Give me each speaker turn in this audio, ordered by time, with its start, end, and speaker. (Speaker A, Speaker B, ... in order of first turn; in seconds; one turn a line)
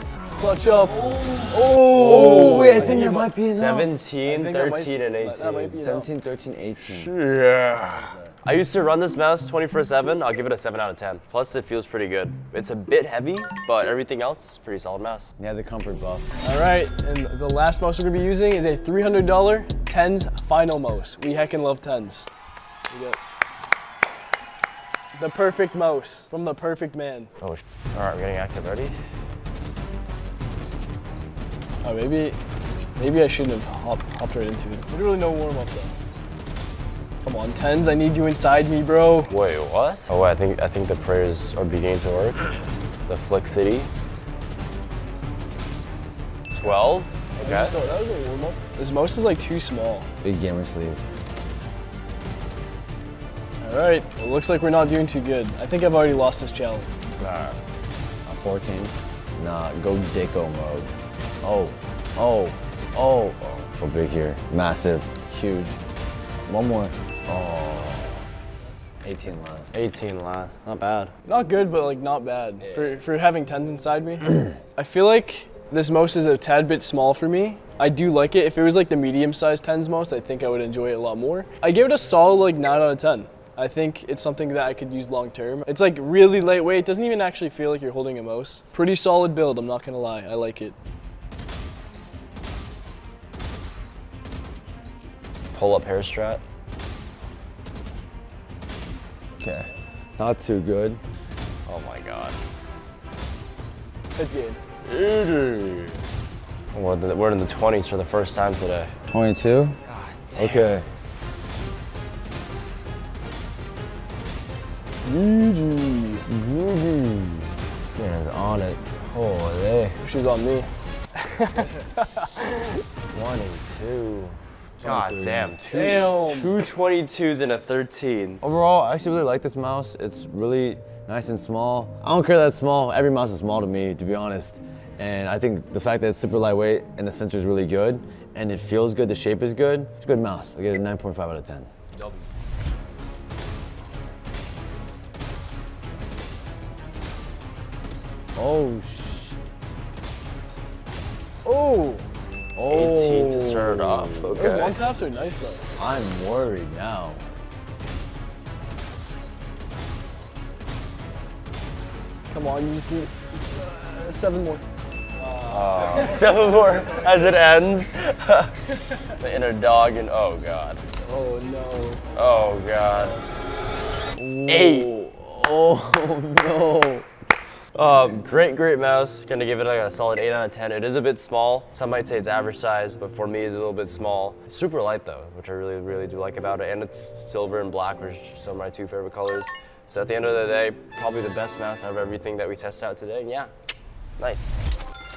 Speaker A: 0.3-3.3
Speaker B: 0.8-3.9
Speaker C: 2.1-5.8
Speaker A: 4.2-6.1
Speaker B: 5.7-7.1
Speaker C: 6.8-15.3
Speaker B: 7.9-8.3
Speaker B: 15.4-16.3
Speaker A: 16.4-22.3
Speaker A: 22.9-23.2
Speaker A: 25.1-27.3
Speaker C: 27.4-28.9
Speaker A: 31.8-32.4
Speaker A: 33.0-35.9
Speaker A: 37.2-39.3
Speaker C: 39.3-42.5
Speaker C: 43.1-43.9
Speaker C: 46.5-47.8
Speaker A: 47.3-50.1
Speaker B: 50.2-51.0
Speaker A: 53.6-56.9
Speaker C: 57.2-57.6
Speaker B: 58.2-60.9
Speaker B: 61.4-65.8
Speaker B: 66.5-68.1
Speaker C: 67.5-68.0
Speaker B: 69.0-69.8
Speaker C: 69.7-71.1
Speaker A: 71.2-90.7
Speaker C: 72.6-73.0
Speaker C: 95.5-96.4
Speaker B: 99.4-101.0
Speaker C: 101.7-102.4
Speaker A: 104.2-104.6
Speaker C: 104.8-106.0
Speaker C: 106.7-108.9
Speaker B: 109.1-109.8
Speaker C: 109.8-110.8
Speaker B: 110.3-110.8
Speaker A: 115.0-116.2
Speaker C: 116.3-117.4
Speaker C: 118.0-120.0
Speaker A: 120.0-122.8
Speaker C: 123.1-128.4
Speaker B: 124.8-125.7
Speaker A: 125.7-126.5
Speaker B: 128.4-141.7
Speaker B: 148.3-149.4
Speaker A: 151.4-152.0
Speaker B: 152.6-154.1
Speaker C: 152.7-154.8
Speaker A: 153.9-155.7
Speaker B: 155.8-157.2
Speaker A: 162.3-164.6
Speaker A: 165.2-166.3
Speaker C: 165.5-170.8
Speaker A: 171.0-172.0
Speaker C: 172.1-173.2
Speaker B: 174.2-177.1
Speaker C: 174.5-174.9
Speaker C: 177.7-193.5
Speaker C: 194.2-194.6